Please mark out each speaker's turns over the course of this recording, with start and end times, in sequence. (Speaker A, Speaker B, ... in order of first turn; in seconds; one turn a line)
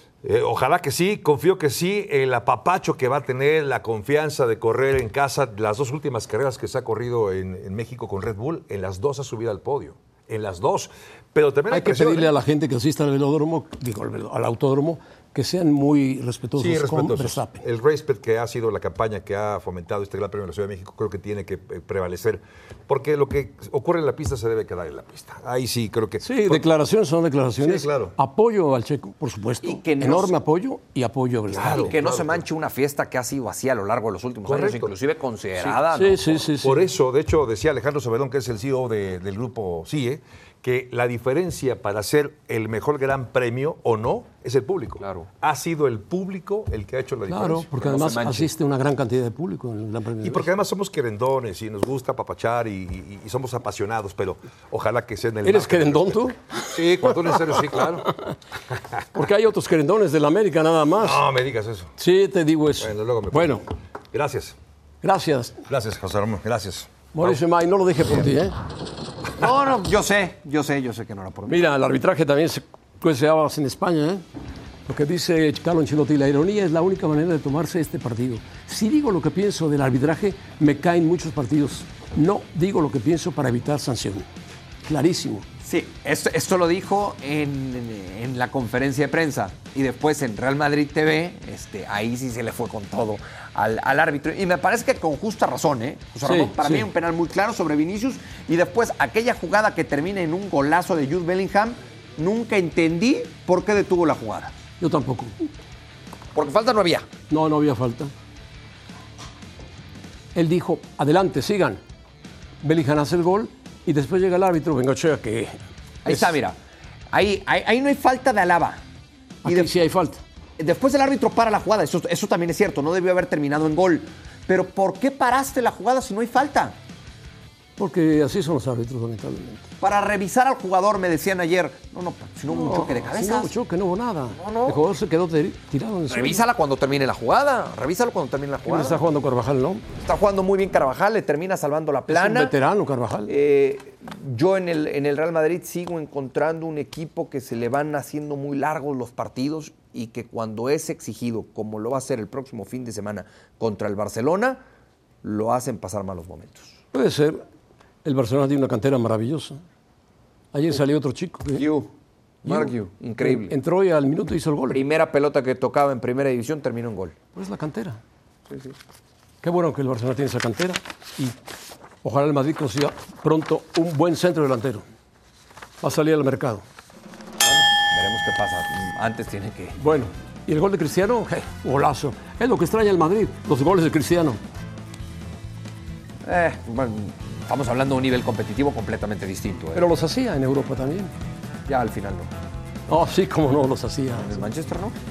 Speaker A: 0.2-12.3
Speaker B: 11.7-17.6
Speaker A: 16.6-26.6
Speaker B: 26.2-31.9
Speaker A: 27.6-28.1
Speaker C: 29.6-30.4
Speaker A: 31.5-32.4
Speaker C: 31.6-36.4
Speaker A: 34.5-34.9
Speaker B: 35.8-36.9
Speaker A: 36.6-47.7
Speaker C: 45.0-45.3
Speaker B: 47.3-50.5
Speaker C: 47.8-48.5
Speaker A: 50.2-58.2
Speaker B: 55.4-58.3
Speaker B: 59.1-61.2
Speaker A: 61.0-61.9
Speaker B: 62.0-63.6
Speaker A: 62.8-64.6
Speaker B: 65.0-65.6
Speaker A: 65.7-67.4
Speaker B: 67.1-68.6
Speaker C: 69.4-71.6
Speaker B: 71.5-74.2
Speaker B: 74.9-84.3
Speaker B: 84.8-85.5
Speaker C: 85.6-104.5
Speaker B: 96.2-96.9
Speaker B: 104.8-105.5
Speaker C: 106.3-107.1
Speaker B: 107.3-108.1
Speaker B: 110.3-111.8
Speaker B: 112.6-115.6
Speaker C: 116.0-116.6
Speaker B: 116.1-116.3
Speaker C: 117.1-118.8
Speaker B: 119.4-120.2
Speaker C: 119.5-119.7
Speaker C: 120.6-126.8
Speaker B: 127.8-129.7
Speaker C: 129.8-133.5
Speaker B: 132.5-136.4
Speaker C: 134.4-134.8
Speaker C: 136.1-139.0
Speaker B: 138.7-139.8
Speaker C: 140.0-142.5
Speaker B: 142.1-143.3
Speaker C: 143.3-154.6
Speaker C: 155.2-156.8
Speaker B: 156.9-157.4
Speaker B: 158.0-159.6
Speaker B: 160.5-161.7
Speaker C: 161.6-161.9
Speaker C: 162.4-163.6
Speaker B: 162.5-164.8
Speaker C: 164.7-167.2
Speaker B: 167.3-168.0
Speaker C: 168.5-168.8
Speaker B: 169.4-171.3
Speaker B: 172.0-174.9
Speaker B: 175.8-176.6
Speaker C: 177.4-179.8
Speaker B: 179.8-184.4
Speaker C: 186.2-189.8
Speaker B: 189.8-191.1
Speaker C: 191.7-192.3
Speaker B: 192.9-194.5
Speaker C: 194.2-195.0